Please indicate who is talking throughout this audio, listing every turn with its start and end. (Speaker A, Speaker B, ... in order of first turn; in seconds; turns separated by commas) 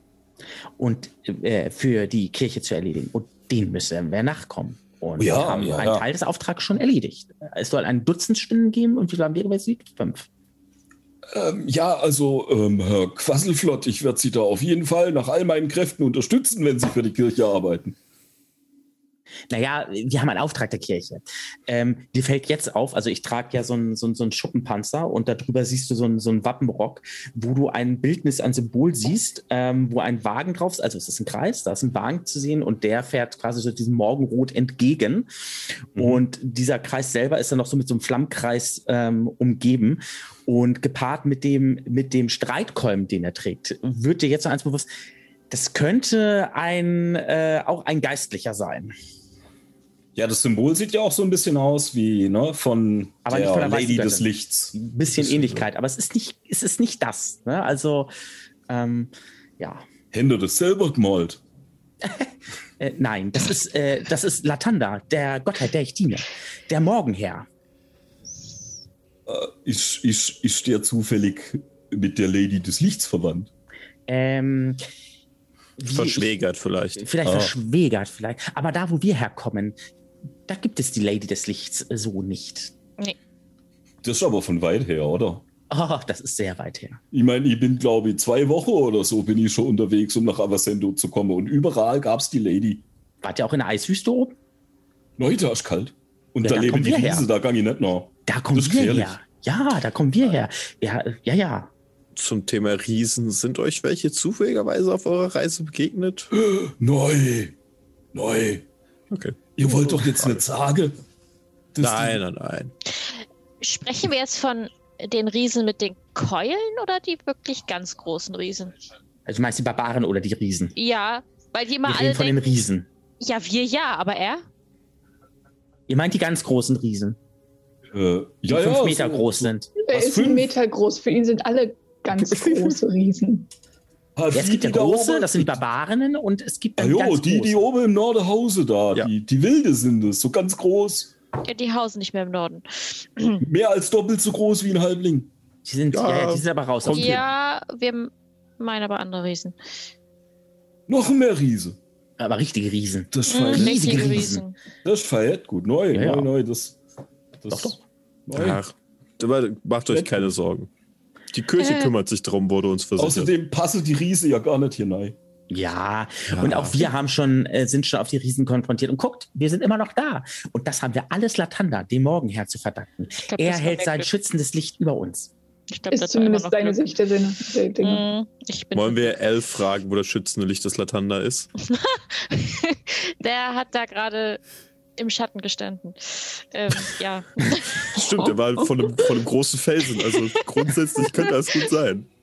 Speaker A: 0.8-10.3, Speaker B: 5.2-6.0, Speaker B: 11.3-17.9, Speaker A: 19.5-35.3, Speaker A: 35.9-44.9, Speaker A: 45.5-48.9, Speaker B: 50.1-55.6, Speaker A: 53.2-58.1, Speaker A: 58.7-59.8, Speaker B: 60.1-61.4, Speaker A: 62.0-67.5, Speaker B: 69.3-73.5, Speaker A: 74.1-74.8, Speaker A: 75.8-76.3, Speaker C: 75.9-77.0, Speaker A: 77.0-79.8, Speaker B: 77.2-77.5, Speaker A: 80.5-82.7, Speaker B: 84.0-85.4, Speaker A: 85.7-87.0, Speaker B: 87.1-92.8, Speaker A: 93.2-94.3, Speaker B: 95.2-99.2, Speaker A: 96.4-97.2, Speaker A: 98.2-101.7, Speaker C: 102.2-106.3, Speaker B: 106.3-107.5, Speaker B: 108.1-108.6, Speaker C: 109.1-110.4, Speaker B: 109.5-111.0, Speaker B: 111.7-112.2, Speaker C: 111.8-112.7, Speaker D: 113.1-118.7, Speaker A: 119.3-120.7, Speaker D: 120.8-122.5, Speaker A: 121.8-122.9, Speaker D: 123.2-124.4, Speaker A: 125.9-127.2, Speaker B: 127.9-130.5, Speaker A: 128.5-129.7, Speaker E: 129.8-133.5, Speaker B: 134.2-135.6, Speaker A: 134.3-137.6, Speaker B: 136.8-141.1, Speaker D: 141.4-143.4, Speaker B: 143.4-145.3, Speaker A: 145.6-147.2, Speaker C: 145.9-147.2, Speaker D: 146.9-149.6, Speaker B: 150.9-151.8, Speaker A: 152.2-154.4, Speaker B: 153.1-154.3, Speaker D: 153.3-154.5, Speaker B: 154.8-156.8, Speaker A: 155.9-156.3, Speaker B: 157.4-158.6, Speaker A: 157.5-157.8, Speaker C: 158.3-160.7, Speaker B: 159.9-160.3, Speaker C: 161.3-163.3, Speaker D: 161.6-161.9, Speaker B: 163.0-165.2, Speaker A: 165.5-175.3, Speaker C: 166.3-166.8, Speaker D: 173.3-174.1, Speaker D: 175.7-176.8, Speaker E: 175.9-178.1, Speaker D: 177.8-179.2, Speaker C: 178.7-181.5, Speaker D: 181.6-184.4, Speaker D: 185.0-188.0, Speaker C: 187.4-192.1, Speaker D: 190.0-191.3